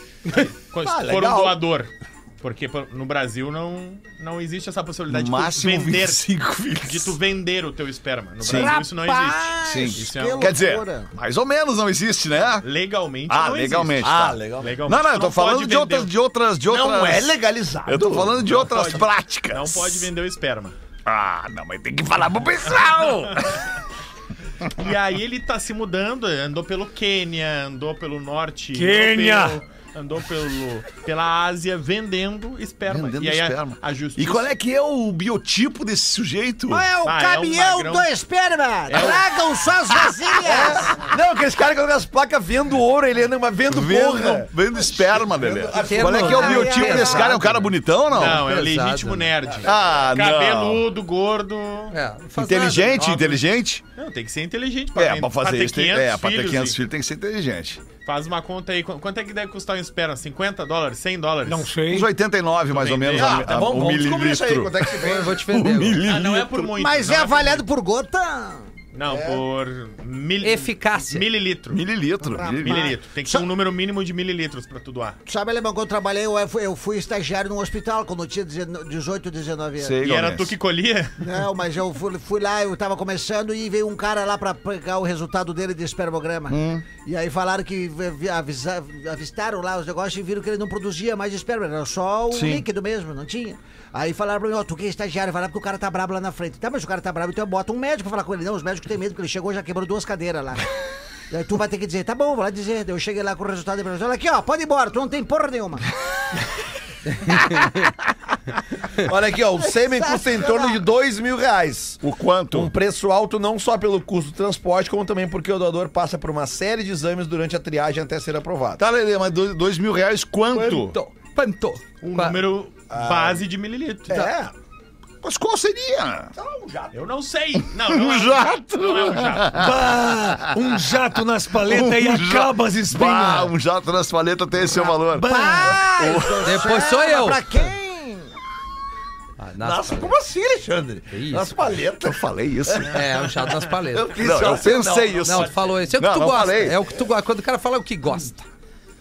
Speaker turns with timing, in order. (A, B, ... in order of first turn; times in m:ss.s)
0:00.3-0:01.6 A
0:00.3-0:06.2 B
0:05.1-0:07.2 C
0:06.8-0:10.6 B
0:08.4-0:08.8 C
0:08.4-0:11.1 D
0:09.6-0:12.6 C
0:12.6-0:16.1 B
0:13.3-0:17.3 C
0:14.0-0:14.7 A
0:16.7-0:18.6 A
0:17.9-0:20.1 C
0:18.5-0:20.8 B
0:21.1-0:23.6 C
0:24.7-0:34.5 B
0:28.7-0:29.6 E
0:32.9-0:36.9 C
0:36.7-0:41.0 D
0:37.0-0:38.1 B
0:38.9-0:39.3 B
0:40.4-0:46.7 A
0:43.7-0:48.4 C
0:45.8-0:47.6 F
0:46.1-0:47.6 D
0:48.1-0:51.9 B
0:48.2-0:49.3 F
0:49.6-0:50.8 C
0:51.9-0:53.0 F
0:52.4-0:53.8 C
0:53.0-0:53.4 B
0:54.0-0:56.8 B
0:54.9-0:57.8 C
0:58.0-1:01.7 B
1:01.4-1:02.1 E
1:01.9-1:06.7 C
1:02.7-1:03.5 B
1:03.2-1:05.4 A
1:05.0-1:06.0 F
1:06.0-1:07.6 B
1:06.7-1:08.7 D
1:08.9-1:11.8 B
1:09.1-1:09.4 A
1:10.4-1:11.2 F
1:11.7-1:12.9 C
1:12.2-1:13.5 D
1:12.6-1:15.2 B
1:15.3-1:20.0 D
1:19.8-1:20.5 C
1:20.0-1:21.2 B
1:21.2-1:40.7 D
1:26.5-1:26.8 C
1:32.3-1:32.6 C
1:41.3-1:45.9 D
1:49.0-1:52.0 A
1:49.6-1:50.8 D
1:52.0-1:52.7 C
1:52.5-1:58.8 A
1:58.8-2:01.0 C
2:00.5-2:02.4 F
2:02.0-2:04.3 B
2:02.9-2:03.4 A
2:04.1-2:04.5 A
2:05.2-2:06.3 C
2:06.4-2:07.0 A
2:06.9-2:09.6 B
2:07.7-2:16.5 C
2:09.6-2:13.5 E
2:15.2-2:18.3 D
2:15.2-2:15.8 E
2:16.4-2:17.4 F
2:19.4-2:20.1 F
2:19.6-2:23.0 A
2:21.1-2:21.5 F
2:22.0-2:23.0 C
2:22.9-2:24.2 F
2:23.9-2:25.7 A
2:24.1-2:26.9 C
2:25.2-2:28.4 F